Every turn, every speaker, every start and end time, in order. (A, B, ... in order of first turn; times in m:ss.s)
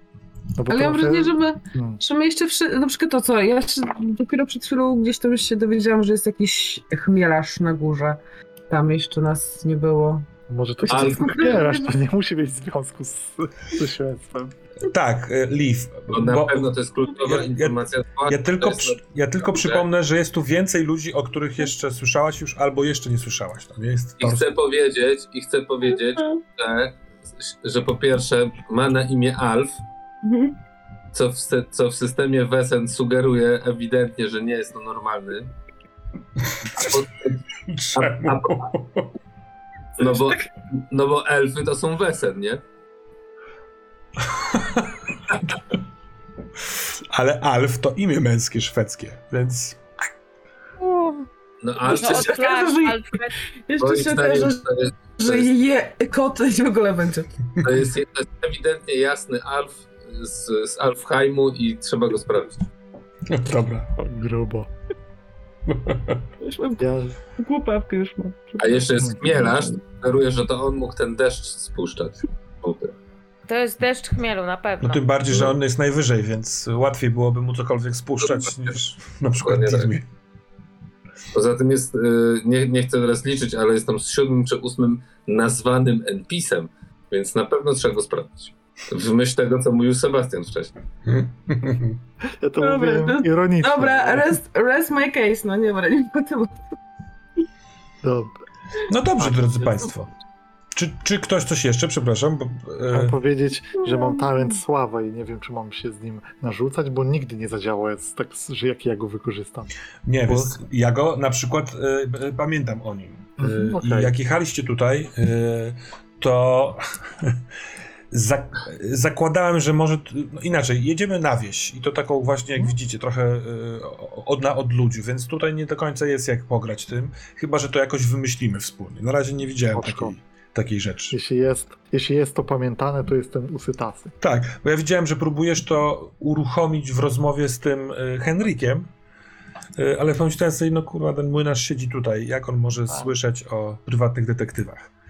0:00.6-0:02.0 A
0:00.7-0:10.2 B
0:10.5-0:14.5 A
0:10.8-0:11.9 B
0:10.9-0:11.7 C
0:14.8-0:24.5 D
0:16.1-0:19.8 C
0:24.2-0:29.8 C
0:25.9-0:26.4 B
0:30.2-0:30.5 B
0:31.1-0:35.5 C
0:36.7-0:36.9 D
0:36.7-0:37.4 C
0:37.7-0:39.1 D
0:38.0-0:38.6 C
0:40.0-0:42.6 C
0:40.0-0:40.4 B
0:44.3-0:45.0 D
0:47.1-0:49.8 D
0:50.9-0:51.2 B
0:51.6-0:52.4 C
0:51.9-0:53.4 E
0:51.9-0:54.6 B
0:53.8-0:55.5 C
0:55.2-0:57.3 B
0:57.6-1:02.6 C
1:03.3-1:03.9 D
1:04.0-1:04.7 A
1:05.7-1:06.2 D
1:06.4-1:08.7 B
1:06.8-1:07.2 A
1:08.6-1:12.9 C
1:13.5-1:15.1 E
1:14.8-1:20.0 D
1:15.3-1:15.5 C
1:18.2-1:18.7 C
1:19.4-1:19.9 C
1:21.3-1:30.7 C
1:31.0-1:32.0 D
1:32.4-1:34.3 A
1:32.6-1:36.6 B
1:38.0-1:38.3 A
1:38.9-1:40.1 D
1:40.7-1:43.2 D
1:42.9-1:49.7 A
1:43.8-1:44.5 B
1:50.0-1:57.4 D
1:50.2-1:50.6 A
1:53.4-1:54.2 A
1:58.1-2:11.1 D
2:09.7-2:10.1 A
2:11.1-2:14.1 A
2:14.2-2:18.9 D
2:19.8-2:24.9 D